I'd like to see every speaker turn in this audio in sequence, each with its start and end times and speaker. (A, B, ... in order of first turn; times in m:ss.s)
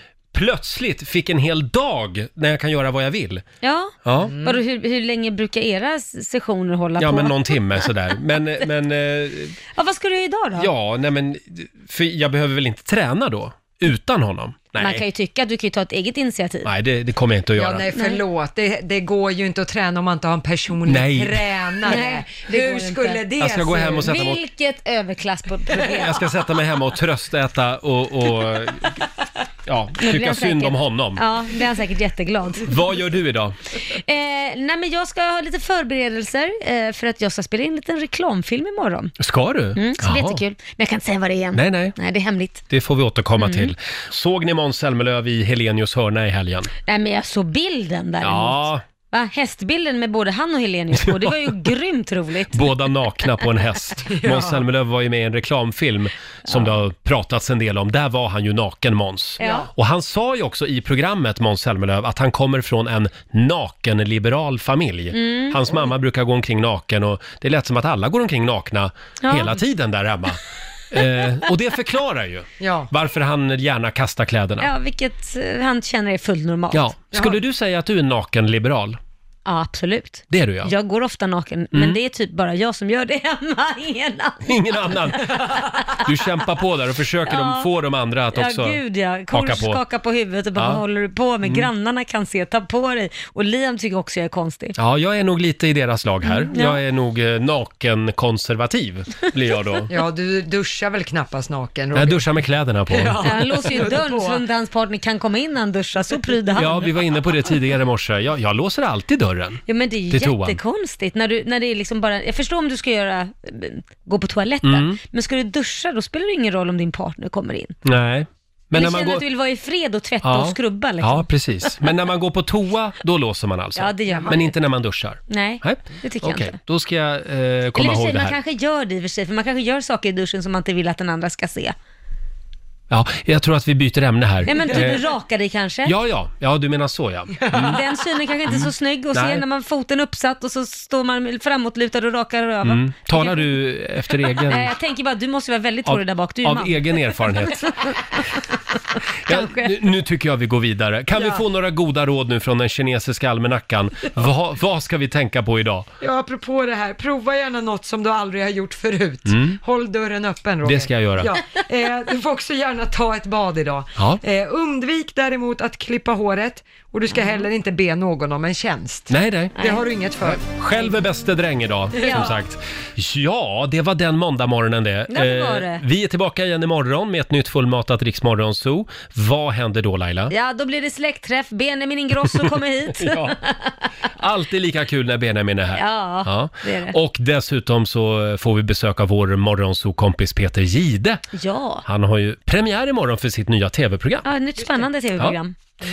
0:00.3-0:03.4 A
0:03.6-0:07.9 B
0:04.0-0:04.4 A
0:04.2-0:04.6 C
0:07.0-0:09.6 A
0:09.7-0:10.7 B
0:10.5-0:15.0 A
0:14.8-0:16.7 B
0:16.6-0:17.8 A
0:17.6-0:24.1 C
0:17.9-0:18.2 B
0:20.9-0:21.5 A
0:21.8-0:23.3 B
0:23.4-0:24.4 A
0:24.0-0:26.3 B
0:25.9-0:29.0 A
0:29.6-0:31.3 A
0:30.0-0:33.0 B
0:32.6-0:33.6 A
0:34.0-0:39.1 B
0:39.2-0:40.4 A
0:39.7-0:42.6 B
0:41.5-0:42.0 A
0:42.7-0:46.7 A
0:43.4-0:43.7 B
0:46.8-0:52.6 B
0:48.2-0:48.8 A
0:50.9-0:51.7 A
0:52.5-1:14.7 A
0:54.1-0:54.6 C
0:56.5-0:56.8 B
0:59.4-0:59.7 C
0:59.4-0:59.7 B
1:05.1-1:05.9 B
1:09.2-1:09.6 B
1:12.6-1:12.9 C
1:14.6-1:17.0 B
1:16.7-1:19.0 A
1:17.1-1:17.4 C
1:19.4-1:26.1 B
1:20.3-1:20.7 A
1:21.7-1:22.0 A
1:24.4-1:29.8 A
1:27.3-1:27.7 B
1:28.3-1:34.7 B
1:30.6-1:30.8 A
1:31.4-1:31.7 A
1:34.8-1:39.9 A
1:36.2-1:36.8 B
1:39.9-1:42.3 C
1:41.9-1:43.8 A
1:42.9-1:44.4 C
1:43.2-1:46.9 B
1:46.5-1:50.6 A
1:49.7-1:57.8 B
1:54.6-1:55.0 A
1:57.8-1:59.2 A
1:58.7-2:01.7 B
2:00.2-2:08.4 A
2:03.7-2:04.6 B
2:04.0-2:04.4 C
2:05.3-2:06.6 B
2:07.7-2:11.7 B
2:12.9-2:15.1 A
2:14.4-2:15.9 B
2:15.8-2:17.8 A
2:17.4-2:17.8 C
2:17.6-2:23.6 B
2:18.5-2:19.4 A
2:22.6-2:24.8 A
2:24.2-2:28.2 B
2:25.8-2:27.8 A
2:29.2-2:35.9 A
2:29.3-2:29.7 B
2:31.1-2:31.4 B
2:36.0-2:50.4 C
2:39.2-2:39.6 A
2:40.6-2:41.4 A
2:47.1-2:47.4 B
2:49.1-2:49.6 A
2:49.6-2:49.8 B
2:50.2-3:00.3 A
2:52.0-2:52.3 C
2:52.0-2:52.4 B
2:55.1-2:55.8 B
3:00.3-3:03.9 B
3:02.3-3:03.4 A
3:04.2-3:11.2 A
3:05.8-3:07.0 B
3:11.3-3:11.8 B
3:11.8-3:14.3 A
3:14.2-3:15.6 B